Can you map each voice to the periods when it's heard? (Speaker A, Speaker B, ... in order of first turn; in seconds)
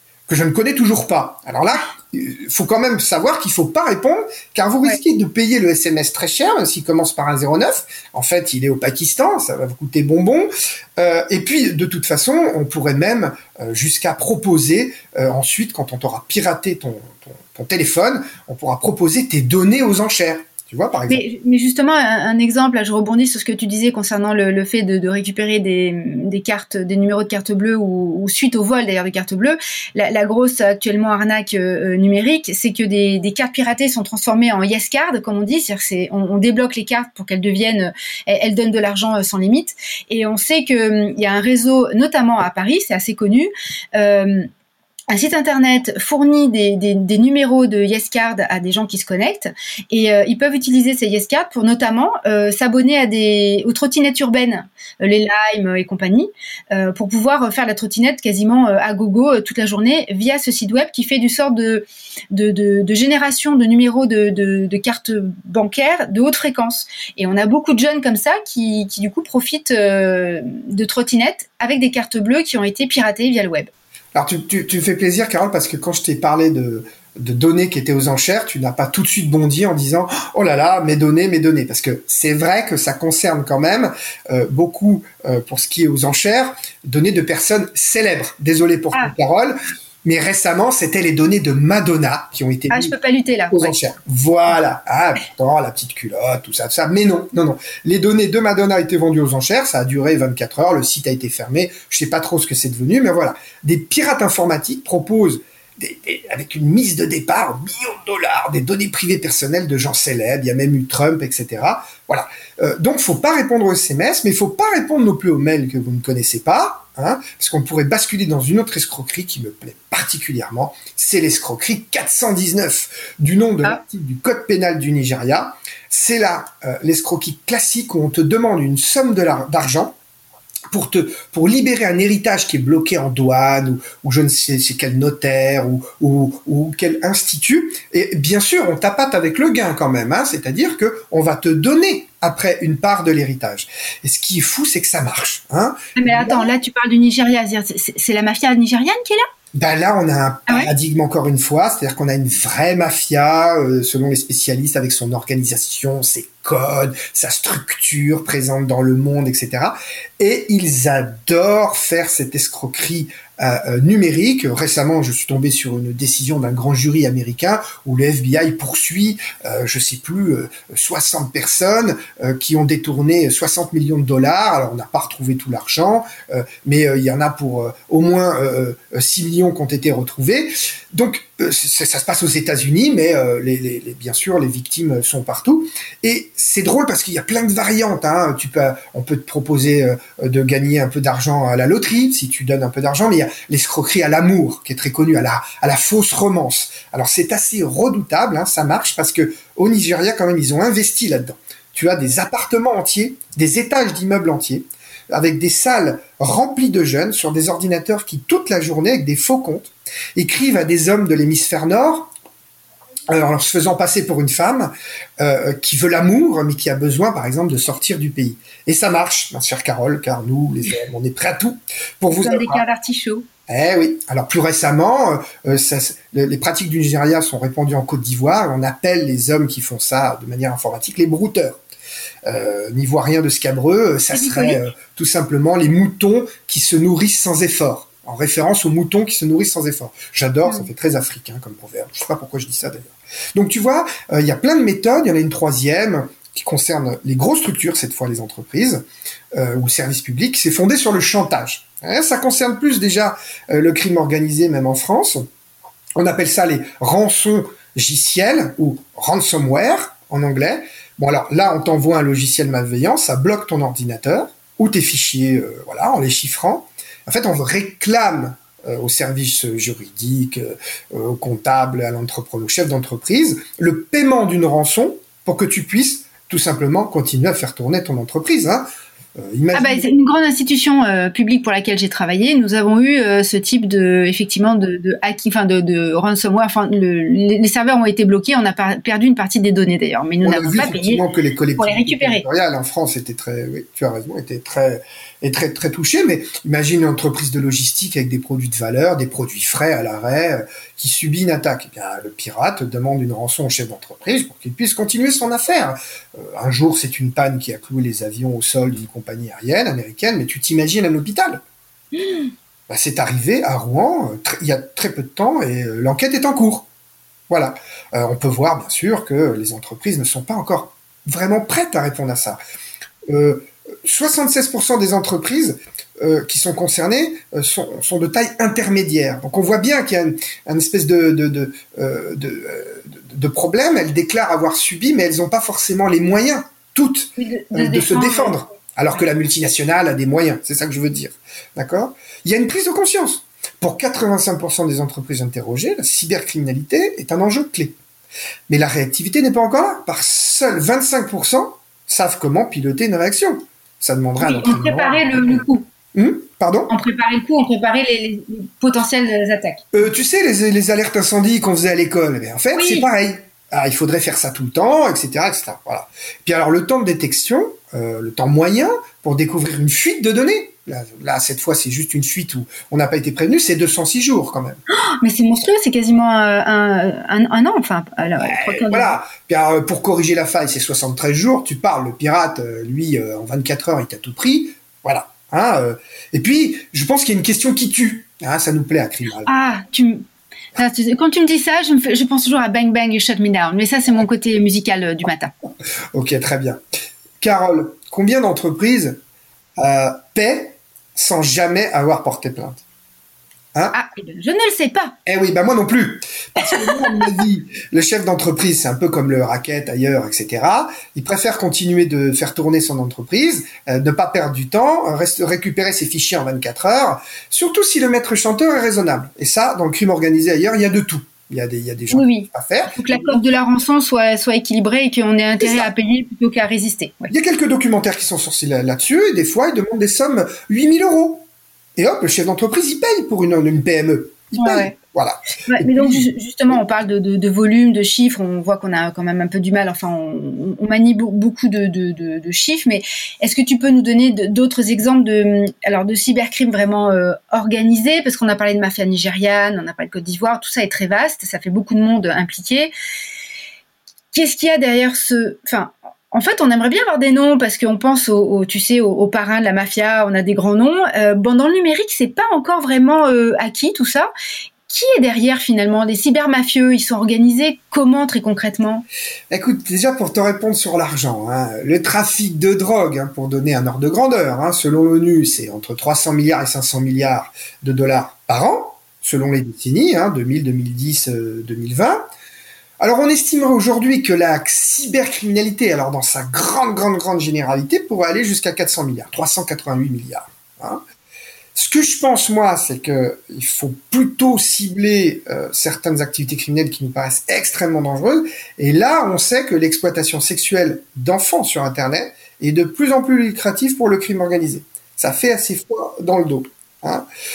Speaker A: 0.3-21.2, 74.1-92.9, 93.5-129.9, 130.7-146.5, 149.5-212.1, 213.1-222.6, 223.5-231.6, 232.2-255.2, 255.9-279.9, 290.2-311.4, 312.7-316.7, 317.3-322.4, 323.1-347.8, 348.5-356.7, 359.7-374.6, 378.2-389.3, 395.9-396.6, 397.2-399.0, 399.6-402.6, 405.1-423.2, 425.4-425.7, 427.1-436.1, 469.3-482.0, 482.8-490.8, 491.5-507.1
Speaker B: 21.1-44.5, 45.1-73.7, 92.7-93.8, 145.9-149.2, 222.1-223.3, 234.1-234.6, 279.5-291.0, 291.6-292.2, 337.2-338.4, 354.2-355.6, 356.7-359.7, 362.5-362.9, 375.0-378.9, 389.2-390.0, 390.6-395.3, 403.7-404.9, 406.5-406.9, 421.9-427.1, 434.4-434.7, 435.5-452.7, 454.1-464.1, 464.7-468.8